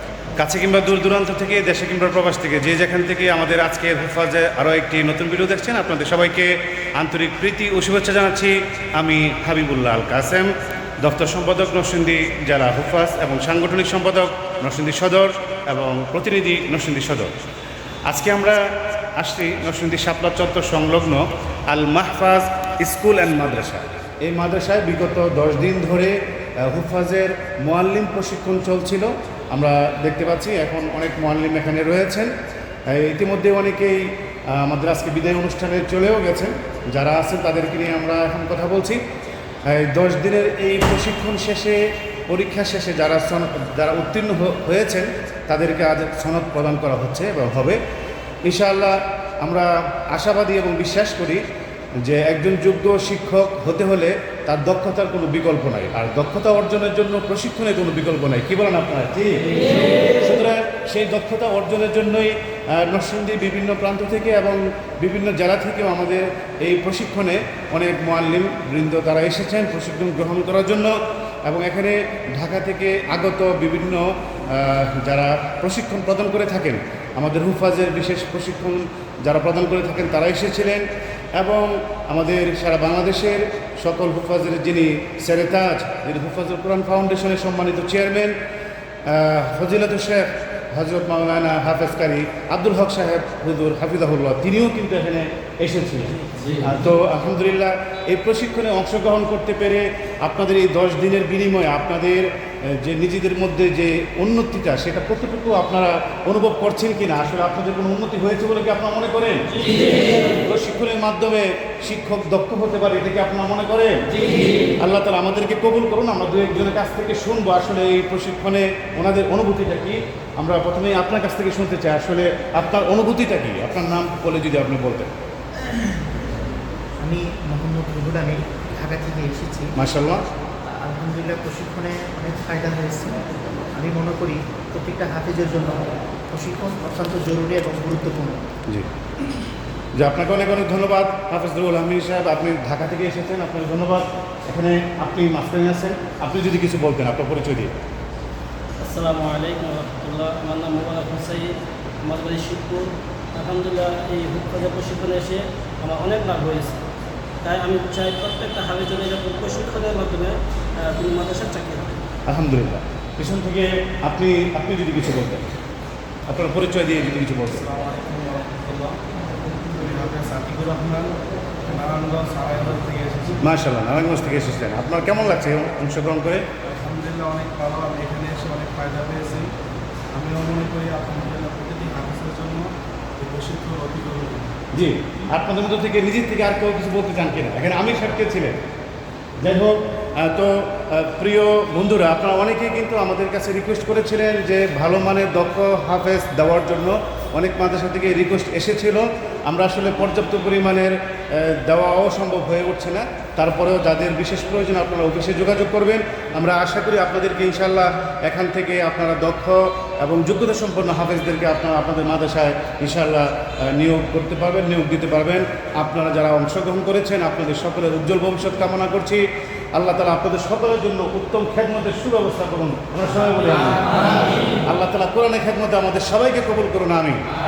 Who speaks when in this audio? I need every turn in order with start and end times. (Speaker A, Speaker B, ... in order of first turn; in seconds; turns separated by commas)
Speaker A: 0.4-17.3, Speaker A: 18.1-18.6, Speaker A: 19.2-32.3, Speaker A: 32.9-39.0, Speaker A: 39.6-47.8, Speaker A: 48.4-51.4, Speaker A: 52.0-80.8, Speaker A: 81.4-88.4, Speaker A: 89.0-114.0, Speaker A: 114.8-125.1, Speaker B: 127.0-129.7, Speaker A: 129.8-130.2, Speaker B: 130.8-133.2, Speaker B: 133.8-138.4, Speaker A: 140.0-147.7, Speaker C: 148.8-156.8, Speaker C: 157.4-162.0, Speaker A: 162.3-165.5, Speaker A: 166.3-167.7, Speaker D: 167.6-169.0, Speaker D: 169.6-173.4, Speaker A: 173.4-176.5, Speaker D: 176.7-179.5, Speaker D: 180.1-184.5, Speaker A: 184.7-188.6, Speaker A: 189.4-219.2, Speaker A: 219.7-227.2